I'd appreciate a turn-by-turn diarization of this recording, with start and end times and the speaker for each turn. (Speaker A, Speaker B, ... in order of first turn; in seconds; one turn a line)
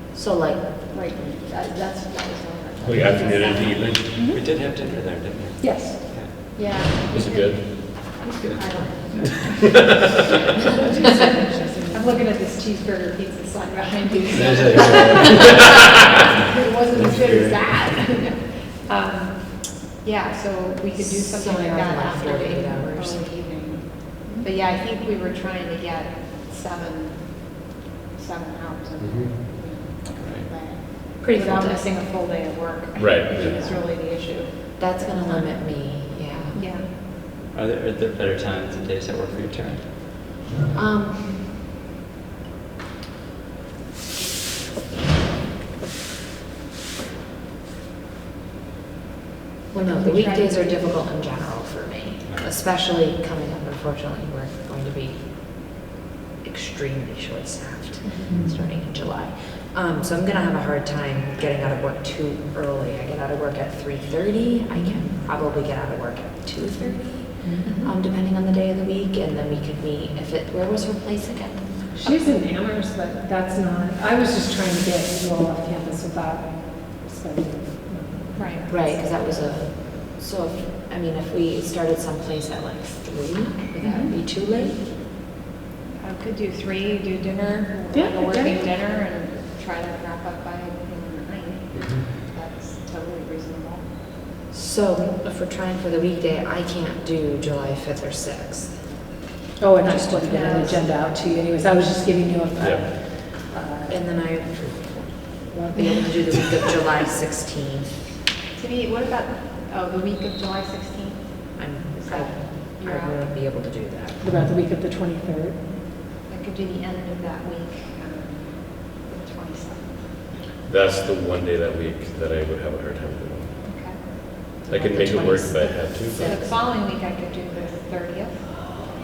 Speaker A: 0.1-0.6
Speaker B: 0.9-3.7
Speaker C: 2.8-4.2
Speaker D: 4.3-6.3
Speaker E: 5.6-6.2
Speaker B: 6.5-7.7
Speaker C: 7.1-7.8
Speaker B: 8.5-9.2
Speaker E: 10.8-12.2
Speaker B: 11.9-15.7
Speaker D: 14.3-15.7
Speaker B: 16.2-35.6
Speaker D: 16.9-17.8
Speaker A: 21.0-23.3
Speaker C: 29.0-29.3
Speaker D: 30.2-30.4
Speaker A: 31.2-31.9
Speaker C: 33.0-33.7
Speaker A: 34.8-36.6
Speaker B: 36.5-36.9
Speaker D: 37.5-39.9
Speaker A: 40.7-41.4
Speaker A: 49.7-55.7
Speaker B: 49.7-50.9
Speaker A: 56.4-71.9
Speaker B: 58.0-58.3
Speaker E: 58.3-58.6
Speaker E: 67.4-67.7
Speaker B: 67.7-67.9
Speaker E: 72.0-78.7
Speaker B: 78.3-78.7
Speaker A: 78.7-84.8
Speaker B: 86.0-93.9
Speaker E: 87.9-88.7
Speaker C: 91.8-92.0
Speaker A: 94.5-99.0
Speaker E: 99.6-104.0
Speaker A: 99.8-100.8
Speaker B: 100.3-100.8
Speaker C: 102.6-103.0
Speaker A: 103.9-108.0
Speaker B: 108.5-113.2
Speaker A: 111.6-114.2
Speaker E: 114.2-115.6
Speaker B: 116.3-120.2
Speaker C: 120.7-123.5
Speaker B: 123.7-124.5
Speaker A: 124.6-126.4
Speaker C: 124.7-126.5
Speaker B: 126.0-128.5